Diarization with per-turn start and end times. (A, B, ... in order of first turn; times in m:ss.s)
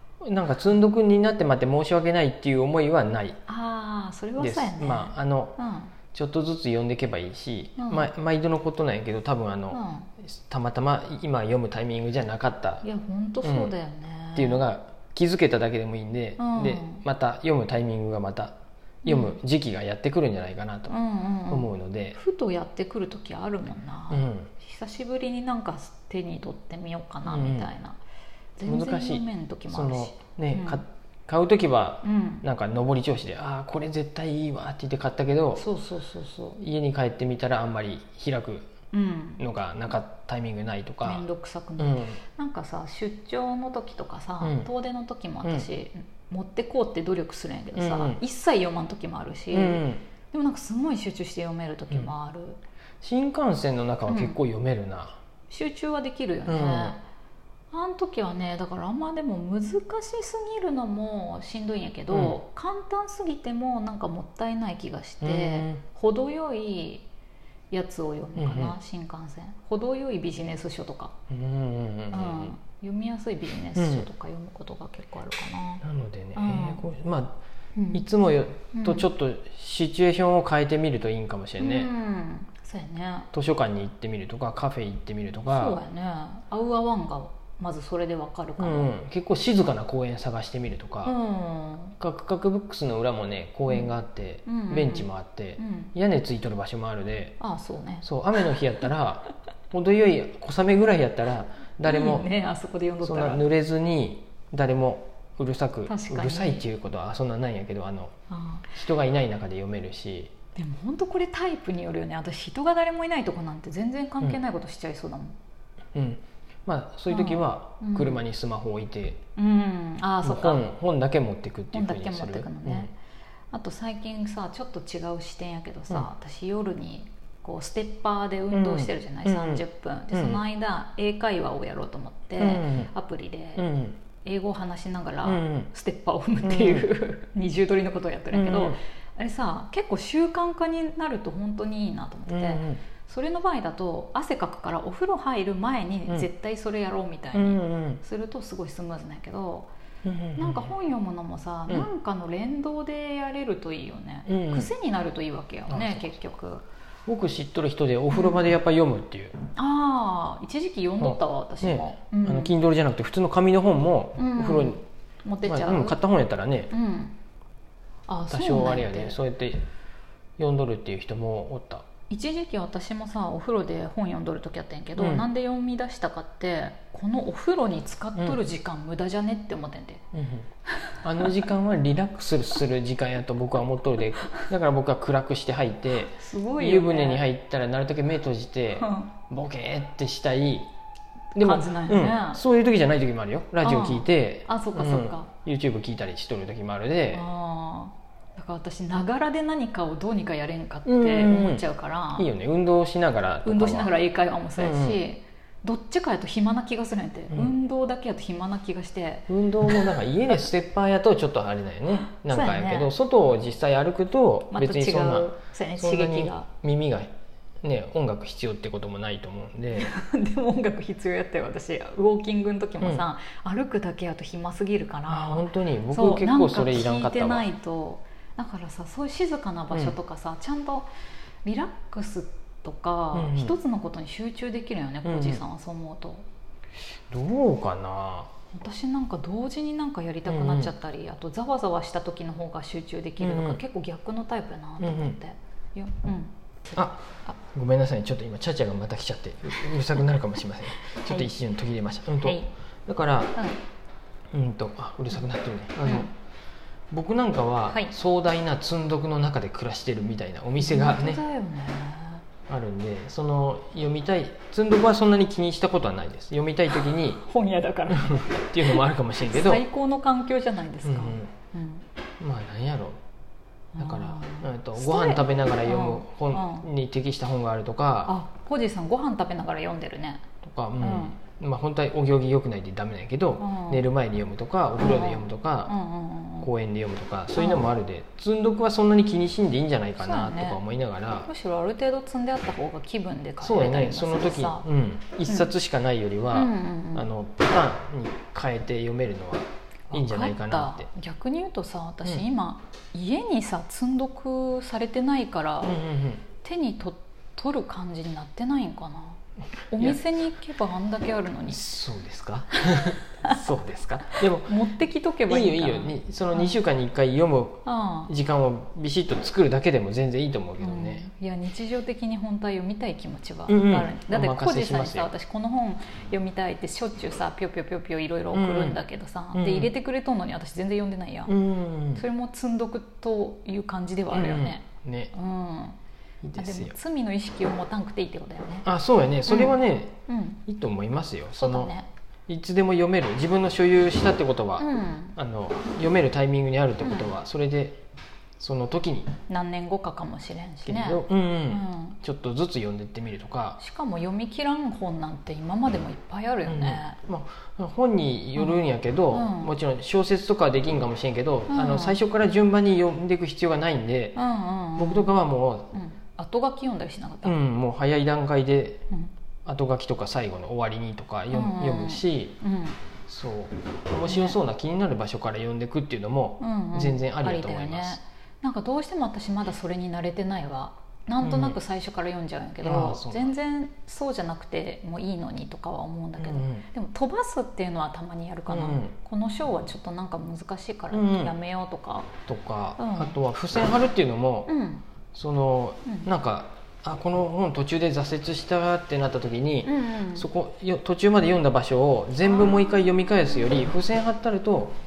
0:00.2-0:03.4 A
0:03.5-0:06.0 B
0:04.4-0:05.6 A
0:06.1-0:12.8 A
0:07.8-0:08.1 B
0:09.7-0:10.1 B
0:12.8-0:14.7 B
0:13.4-0:13.7 A
0:14.4-0:21.0 A
0:16.4-0:17.0 B
0:19.0-0:19.4 B
0:20.9-0:28.0 B
0:21.5-0:22.2 A
0:24.1-0:24.5 A
0:27.2-0:27.7 A
0:28.6-0:30.8 B
0:28.6-0:35.6 A
0:32.0-0:32.4 B
0:35.6-0:36.6 B
0:36.6-0:38.7 A
0:38.9-0:39.4 B
0:39.4-0:41.2 A
0:41.0-0:52.6 B
0:41.8-0:42.2 A
0:44.4-0:44.7 A
0:47.8-0:48.2 A
0:49.5-0:50.1 A
0:53.0-0:55.2 A
0:54.1-0:54.4 B
0:55.5-0:57.0 B
0:56.5-0:57.0 A
0:57.7-1:07.1 B
1:02.1-1:02.4 A
1:05.2-1:05.8 A
1:07.7-1:11.1 B
1:08.4-1:08.8 A
1:11.3-1:12.6 A
1:12.1-1:15.8 B
1:13.8-1:14.0 A
1:15.8-1:17.4 A
1:16.4-1:16.8 B
1:17.8-1:18.0 B
1:17.9-1:21.9 A
1:18.7-1:19.1 B
1:21.6-1:23.3 B
1:23.3-1:25.8 A
1:25.5-1:28.9 B
1:28.6-1:31.2 A
1:31.0-1:32.0 B
1:32.0-1:37.4 A
1:34.5-1:35.9 B
1:37.4-1:38.1 B
1:38.0-1:42.3 A
1:41.8-1:43.5 B
1:43.0-1:48.2 A
1:45.9-1:46.7 B
1:48.3-1:48.7 B
1:48.7-1:50.3 A
1:50.6-1:55.4 B
1:56.0-1:59.2 A
1:57.1-1:58.2 B
1:59.4-2:00.6 B
2:00.2-2:02.9 A
2:01.7-2:02.9 B
2:03.5-2:13.7 B
2:08.5-2:10.4 A
2:12.4-2:12.9 A
2:13.6-2:14.0 A
2:14.2-2:29.7 B
2:15.2-2:15.7 A
2:16.4-2:16.9 A
2:18.3-2:18.8 A
2:22.3-2:22.8 A
2:27.3-2:28.0 A
2:30.0-2:30.7 A
2:30.4-2:36.7 B
2:34.3-2:34.7 A
2:35.7-2:36.2 A
2:37.1-2:39.4 A
2:38.1-2:38.4 B
2:39.6-2:42.6 B
2:41.0-2:44.8 A
2:44.2-2:46.0 B
2:45.4-2:46.7 A
2:46.7-2:47.2 B
2:48.1-2:49.2 B
2:48.3-2:49.7 A
2:50.4-2:51.9 A
2:52.1-3:00.0 B
2:55.0-2:55.3 A
3:00.1-3:00.5 A
3:00.9-3:01.3 B
3:01.0-3:10.7 A
3:06.1-3:07.2 B
3:08.8-3:09.1 B
3:11.4-3:17.2 A
3:11.4-3:12.4 B
3:13.6-3:15.3 B
3:17.1-3:22.3 B
3:20.8-3:23.9 A
3:23.4-3:30.0 B
3:24.6-3:25.0 A
3:29.3-3:37.1 A
3:32.0-3:32.9 B
3:34.5-3:36.5 B
3:37.6-3:39.9 A
3:39.7-3:50.9 B
3:45.1-3:47.5 A
3:49.7-3:50.0 A
3:51.4-3:56.2 B
3:53.1-3:53.5 A
3:55.0-3:55.4 A
3:57.1-3:58.3 A
3:58.5-4:07.3 B
4:00.3-4:00.7 A
4:03.2-4:03.6 A
4:04.8-4:05.2 A
4:06.8-4:13.4 A
4:10.9-4:11.3 B
4:12.2-4:12.5 B
4:14.3-4:16.1 A
4:15.8-4:16.1 B
4:16.9-4:21.2 A
4:20.6-4:22.2 B
4:22.5-4:27.3 A
4:27.2-4:31.8 B
4:27.9-4:29.6 A
4:30.8-4:31.3 A
4:32.2-4:33.0 A
4:33.7-4:36.7 B
4:33.8-4:38.2 A
4:38.1-4:40.2 B
4:40.4-4:45.8 A
4:40.8-4:41.2 B
4:43.4-4:43.8 B
4:44.8-4:46.5 B
4:46.4-4:51.3 A
4:47.4-4:47.6 B
4:50.0-4:50.6 B
4:51.3-4:54.7 B
4:53.4-5:00.9 A
4:56.3-4:57.1 B
4:59.9-5:05.7 B
5:05.6-5:06.2 A
5:06.4-5:09.2 B
5:09.7-5:11.6 B
5:11.5-5:14.6 A
5:14.5-5:16.5 B
5:15.3-5:21.1 A
5:17.6-5:18.1 B
5:20.6-5:31.4 B
5:23.5-5:25.1 A
5:28.3-5:28.8 A
5:29.3-5:29.7 A
5:31.3-5:32.0 A
5:32.0-5:35.8 B
5:34.1-5:35.1 A
5:36.2-5:36.8 A
5:36.4-5:38.7 B
5:38.6-5:41.7 A
5:39.3-5:40.4 B
5:41.4-5:41.9 B
5:42.3-5:47.8 A
5:44.6-5:45.2 B
5:46.8-5:47.1 B
5:48.4-5:49.1 A
5:49.3-5:52.0 B
5:50.6-5:53.6 A
5:53.6-5:57.0 B
5:56.5-6:04.2 A
5:58.4-5:59.5 B
6:01.5-6:02.0 B
6:04.2-6:05.1 B
6:04.8-6:05.8 A
6:05.7-6:07.4 B
6:07.2-6:08.8 A
6:09.4-6:12.4 A
6:11.3-6:12.8 B
6:13.1-6:18.0 A
6:14.1-6:14.4 B
6:16.4-6:32.2 B
6:21.2-6:21.6 A
6:22.6-6:23.3 A
6:26.2-6:26.7 A
6:28.5-6:29.0 A
6:30.9-6:31.3 A
6:32.3-6:34.5 A
6:32.8-6:33.2 B
6:34.5-6:34.8 B
6:35.1-6:44.7 A
6:39.6-6:40.3 B